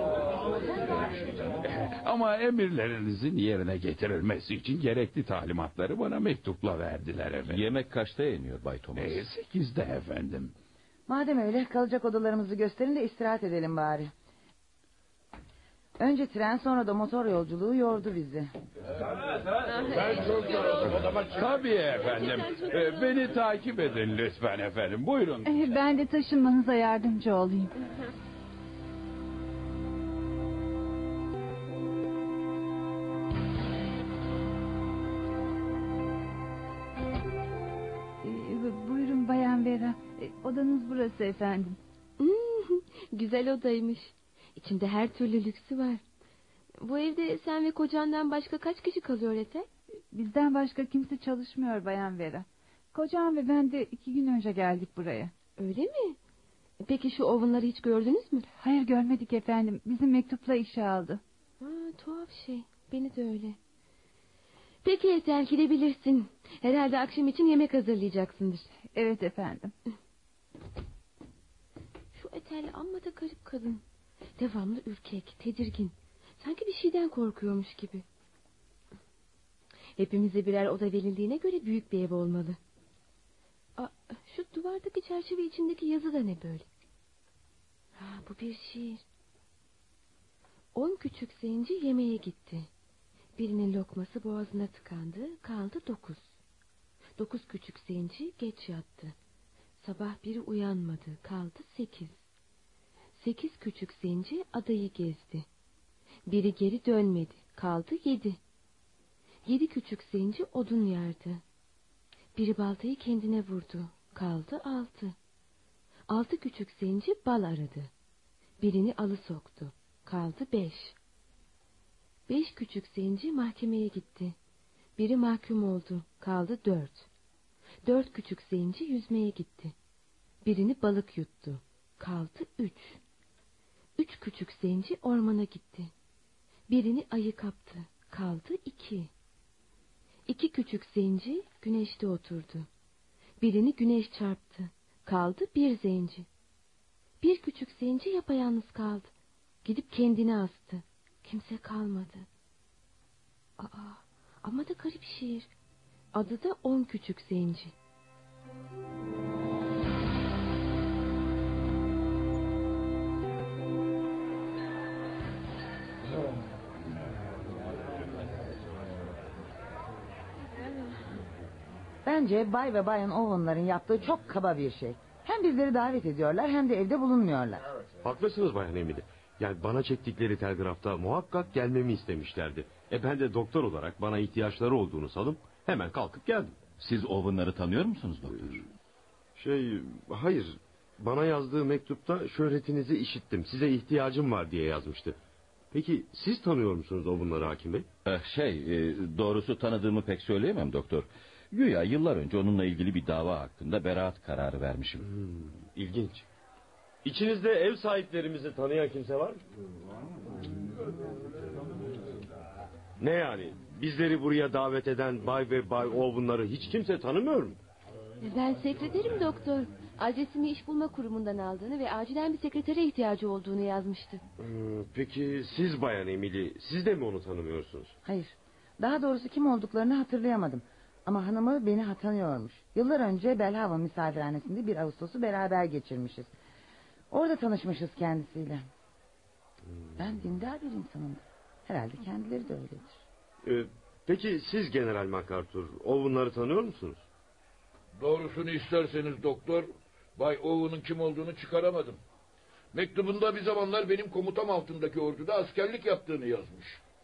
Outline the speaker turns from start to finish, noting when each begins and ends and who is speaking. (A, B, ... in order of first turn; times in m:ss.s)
0:00.7-0:07.6 A
0:07.4-0:09.3 B
0:09.0-0:10.5 A
0:11.1-0:14.1 C
0:16.0-0:18.5 C
0:19.8-0:25.8 A
0:20.6-0:20.9 D
0:25.4-0:27.7 E
0:38.2-0:41.8 E
0:42.2-0:46.0 F
0:46.8-0:49.7 F
0:50.1-0:55.3 E
0:55.6-0:56.2 F
0:56.8-0:58.5 F
0:58.5-1:01.2 E
1:01.6-1:03.6 F
1:04.8-1:08.6 F
1:08.7-1:09.7 E
1:12.1-1:13.8 F
1:14.4-1:18.0 F
1:20.0-1:22.6 F
1:23.8-1:26.7 F
1:28.0-1:29.0 F
1:30.7-1:32.7 F
1:33.4-1:36.2 F
1:37.2-1:39.1 F
1:39.8-1:42.2 F
1:43.2-1:45.4 F
1:46.3-1:48.4 F
1:49.4-1:51.4 F
1:52.4-1:55.1 F
1:56.1-1:57.9 F
1:58.6-2:01.0 F
2:02.3-2:04.3 F
2:05.0-2:07.0 F
2:07.8-2:09.7 F
2:10.4-2:13.0 F
2:14.0-2:15.9 F
2:16.7-2:19.1 F
2:20.3-2:22.7 F
2:23.4-2:26.3 F
2:27.2-2:29.1 F
2:29.6-2:32.2 F
2:33.6-2:35.5 F
2:36.1-2:37.7 F
2:52.0-2:57.6 C
2:58.0-3:06.6 G
3:06.7-3:08.6 B
3:09.4-3:15.2 G
3:15.7-3:17.9 G
3:18.0-3:25.1 B
3:25.0-3:26.2 G
3:27.0-3:29.4 G
3:33.0-3:37.5 G
3:38.2-3:44.2 F
3:44.4-3:47.9 G
3:48.0-3:56.3 C
3:57.1-3:58.7 C
3:59.6-4:00.2 G
4:00.0-4:03.0 C
4:03.4-4:07.0 G
4:08.0-4:12.0 D
4:12.7-4:16.8 D